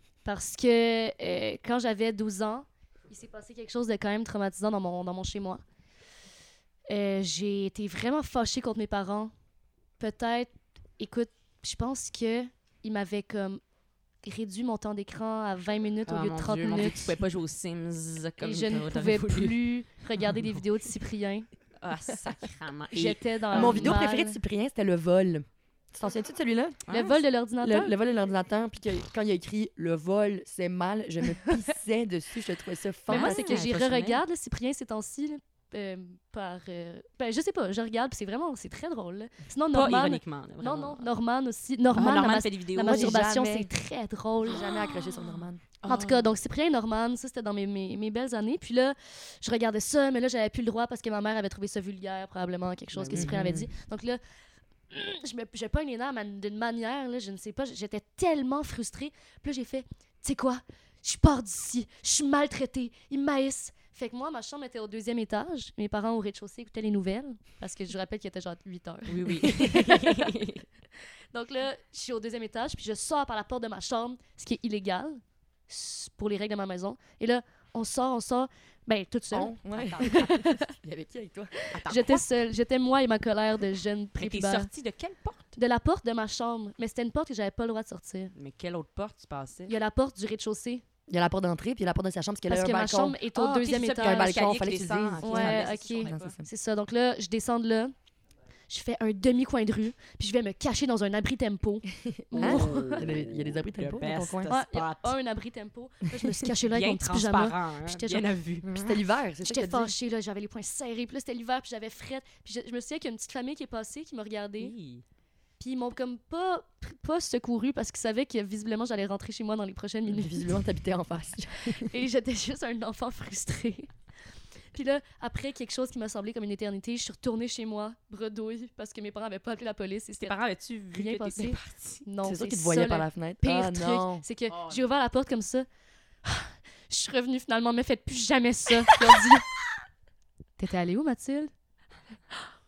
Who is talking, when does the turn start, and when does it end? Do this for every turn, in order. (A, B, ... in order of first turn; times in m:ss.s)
0:00.2-0:05.6 A
0:06.9-0:09.3 A
0:10.0-0:13.6 A
0:14.2-0:17.1 A
0:16.0-0:19.6 B
0:18.4-0:21.5 A
0:21.8-0:24.0 B
0:22.9-0:24.4 A
0:23.5-0:26.8 C
0:26.9-0:27.2 B
0:26.9-0:27.9 A
0:27.6-0:33.6 C
0:33.1-0:34.2 B
0:33.1-0:44.7 A
0:39.7-0:41.1 B
0:41.9-0:43.3 B
0:42.8-0:43.7 C
0:44.4-0:45.6 C
0:44.5-0:46.3 B
0:45.8-0:54.2 A
0:52.9-0:53.6 B
0:53.1-0:53.7 C
0:54.9-1:10.4 A
1:09.1-1:10.6 B
1:11.3-1:20.7 A
1:19.3-1:21.6 C
1:19.7-1:20.5 B
1:21.6-1:24.7 A
1:21.7-1:22.2 B
1:24.2-1:25.5 B
1:25.6-1:28.3 A
1:28.3-1:29.7 B
1:29.7-1:30.8 A
1:31.1-1:33.2 C
1:32.5-1:34.4 A
1:33.3-1:36.3 B
1:34.0-1:36.5 C
1:35.2-1:37.9 A
1:38.7-1:43.1 A
1:42.0-1:44.5 C
1:42.4-1:45.2 B
1:44.5-1:48.3 A
1:46.6-1:49.0 B
1:48.6-1:49.9 C
1:49.4-1:54.7 A
1:54.6-1:55.0 B
1:55.6-2:00.6 A
2:00.1-2:01.9 C
2:01.6-2:03.9 A
2:04.7-2:10.4 A
2:10.2-2:12.0 B
2:10.9-2:15.7 A
2:12.2-2:14.2 C
2:14.5-2:14.9 B
2:16.2-2:19.5 A
2:20.6-2:21.5 A